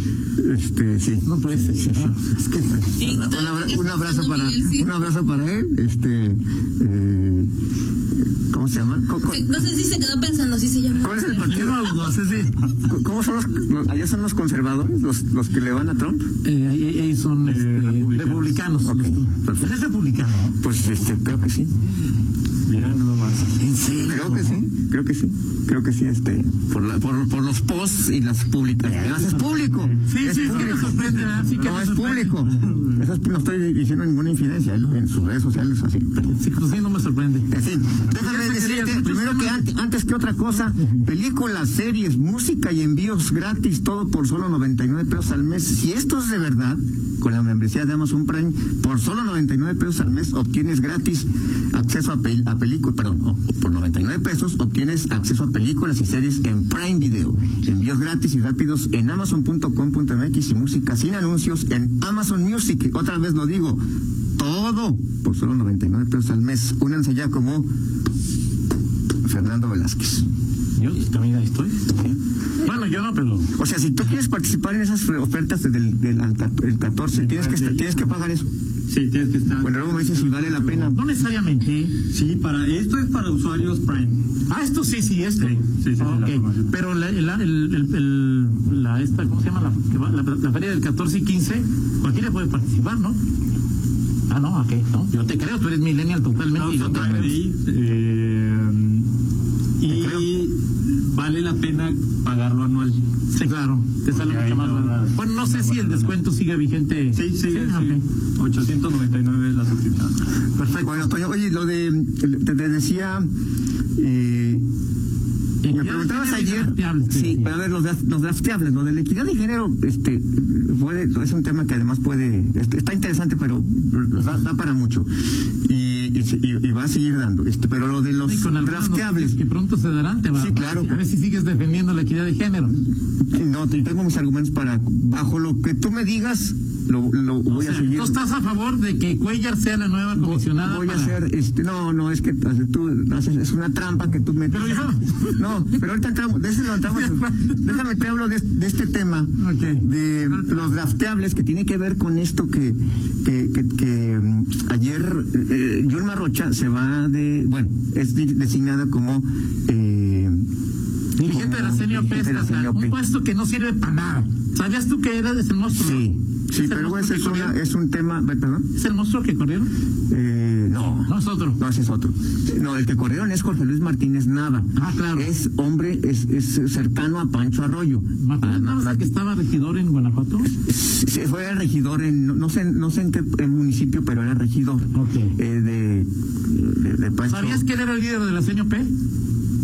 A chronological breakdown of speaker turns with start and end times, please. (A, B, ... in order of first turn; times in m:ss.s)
0:00.4-0:07.5 A
0:01.2-0:02.2 B
0:03.0-0:04.9 C
0:08.5-0:09.4 A
0:09.2-0:11.6 C
0:11.0-0:11.9 A
0:11.3-0:12.6 B
0:12.8-0:16.3 A
0:16.4-0:20.6 B
0:17.4-0:18.6 D
0:18.8-0:19.7 A
0:20.6-0:21.7 A
0:22.6-0:23.6 D
0:23.6-0:24.6 B
0:24.0-0:36.4 A
0:28.9-0:31.7 D
0:30.1-0:32.5 B
0:32.6-0:33.0 D
0:36.2-0:37.5 B
0:37.5-1:03.8 A
0:38.1-0:39.6 B
1:04.4-1:07.7 A
1:09.2-1:10.2 A
1:10.8-1:11.9 B
1:12.6-1:13.5 B
1:13.5-1:18.5 A
1:17.1-1:18.0 D
1:18.9-1:20.9 D
1:19.6-1:21.0 A
1:20.9-1:22.0 B
1:22.1-1:24.2 D
1:24.5-1:33.2 B
1:25.4-1:26.7 D
1:34.3-1:37.4 B
1:36.5-1:39.1 D
1:36.9-1:37.3 A
1:39.8-1:43.0 D
1:39.9-1:40.2 B
1:43.3-1:48.0 B
1:44.1-1:46.2 D
1:47.1-1:50.2 D
1:50.6-1:51.1 B
1:50.7-1:53.3 A
1:54.0-1:54.6 A
1:55.6-1:57.5 B
1:55.6-2:05.1 A
2:05.6-2:09.4 A
2:08.2-2:12.8 B
2:10.3-2:11.0 A
2:13.3-2:18.2 A
2:17.5-2:21.2 B
2:20.1-2:40.4 A
2:24.5-2:25.4 B
2:26.8-2:27.8 B
2:29.4-2:30.6 B
2:41.2-2:43.0 A
2:41.2-2:47.6 B
2:45.7-2:48.6 A
2:48.7-2:49.7 B
2:50.1-2:59.1 A
2:51.0-2:51.6 B
2:54.8-2:55.3 B
2:58.2-3:00.5 B
3:00.5-3:07.6 A
3:04.9-3:05.3 B
3:07.3-3:08.9 B